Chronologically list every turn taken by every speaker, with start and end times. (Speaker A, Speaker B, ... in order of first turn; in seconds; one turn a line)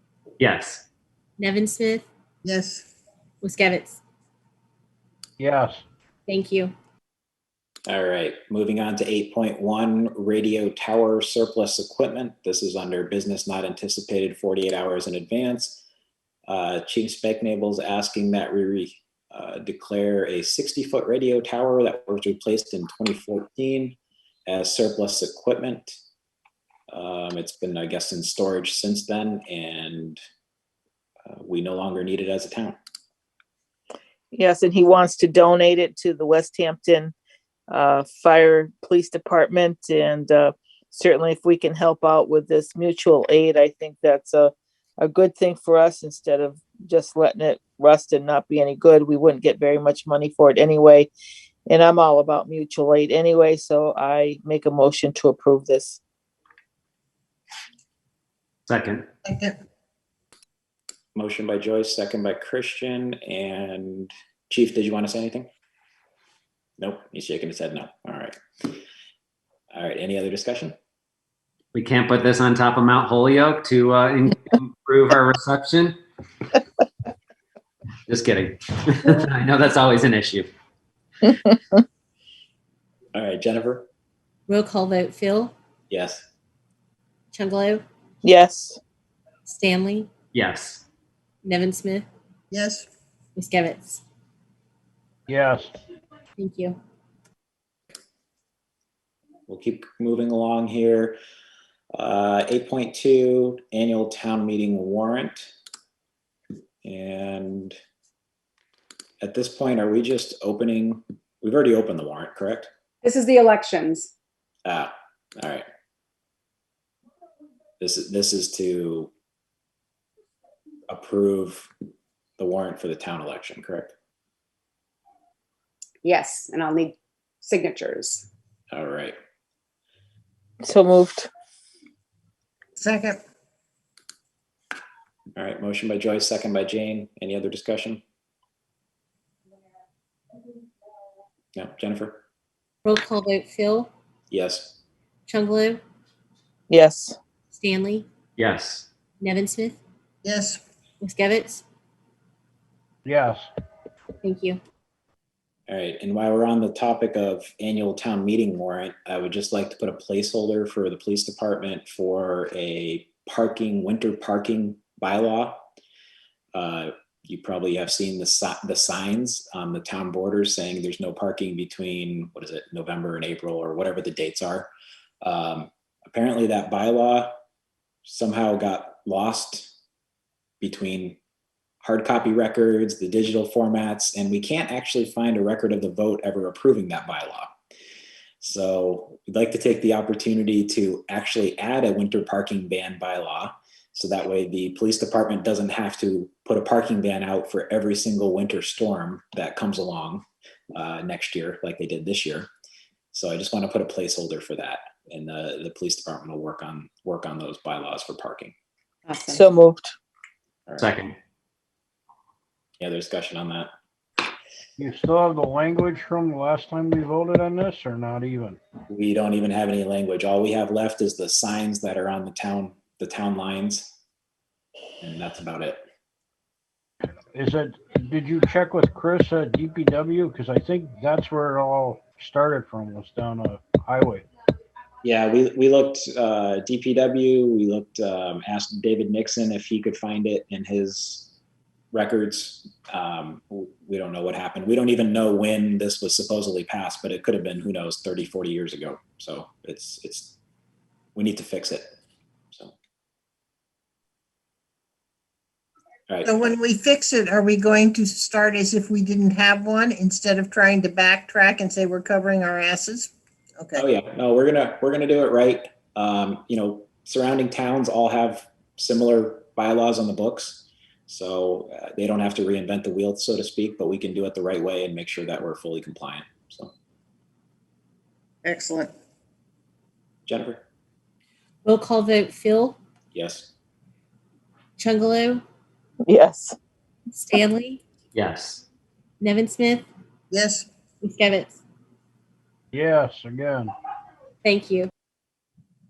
Speaker A: 0.4-0.8
Speaker B: 1.4-2.0
Speaker C: 2.4-2.9
Speaker B: 3.4-4.0
Speaker D: 5.4-5.8
Speaker B: 6.3-6.7
Speaker E: 7.9-15.8
Speaker E: 16.5-26.0
Speaker E: 26.9-30.2
Speaker E: 31.2-32.8
Speaker F: 34.3-37.1
Speaker F: 37.7-51.1
Speaker F: 51.7-56.0
Speaker A: 58.7-59.0
Speaker C: 59.2-59.5
Speaker E: 61.1-65.5
Speaker E: 66.8-68.3
Speaker E: 69.7-70.8
Speaker A: 71.7-76.0
Speaker A: 78.1-80.5
Speaker E: 83.1-83.9
Speaker B: 84.5-85.5
Speaker E: 85.9-86.2
Speaker B: 87.3-87.8
Speaker F: 88.2-88.8
Speaker B: 89.4-90.1
Speaker A: 90.3-90.8
Speaker B: 91.4-92.0
Speaker C: 92.5-92.9
Speaker B: 93.3-94.0
Speaker D: 95.3-95.8
Speaker B: 96.4-96.8
Speaker E: 99.5-101.2
Speaker E: 102.0-105.5
Speaker E: 106.8-107.8
Speaker E: 109.2-112.7
Speaker G: 113.0-114.1
Speaker E: 114.7-115.6
Speaker E: 117.8-119.1
Speaker E: 120.9-121.7
Speaker E: 122.4-123.9
Speaker G: 126.0-128.3
Speaker E: 128.7-129.2
Speaker F: 130.6-131.3
Speaker C: 132.8-133.2
Speaker E: 135.3-138.0
Speaker E: 141.6-142.2
Speaker B: 142.8-143.9
Speaker E: 144.3-144.8
Speaker B: 145.3-145.8
Speaker F: 146.7-147.2
Speaker B: 147.5-148.1
Speaker A: 148.4-148.9
Speaker B: 149.2-149.8
Speaker C: 150.2-150.6
Speaker B: 151.0-151.6
Speaker D: 153.0-153.5
Speaker B: 154.2-154.6
Speaker E: 155.7-165.6
Speaker E: 166.5-174.7
Speaker E: 175.2-177.3
Speaker E: 178.0-179.7
Speaker E: 180.6-181.2
Speaker E: 181.8-187.5
Speaker E: 188.4-202.5
Speaker E: 203.1-208.5
Speaker G: 209.1-209.4
Speaker F: 209.2-209.9
Speaker E: 210.7-211.0
Speaker A: 210.8-211.1
Speaker E: 212.8-213.7
Speaker D: 214.8-218.6
Speaker E: 218.9-223.9
Speaker E: 225.0-225.8
Speaker D: 227.3-234.2
Speaker E: 235.0-241.3
Speaker E: 241.9-250.3
Speaker E: 251.1-251.8
Speaker E: 256.1-256.4
Speaker C: 256.2-263.8
Speaker E: 263.7-276.7
Speaker C: 278.4-278.9
Speaker E: 280.3-280.6
Speaker B: 281.6-282.8
Speaker E: 283.1-283.5
Speaker B: 284.8-285.4
Speaker F: 286.0-286.6
Speaker B: 287.1-287.8
Speaker A: 288.1-288.6
Speaker B: 289.2-289.9
Speaker C: 290.3-290.6
Speaker B: 291.0-291.6
Speaker D: 292.7-293.7
Speaker B: 294.4-294.9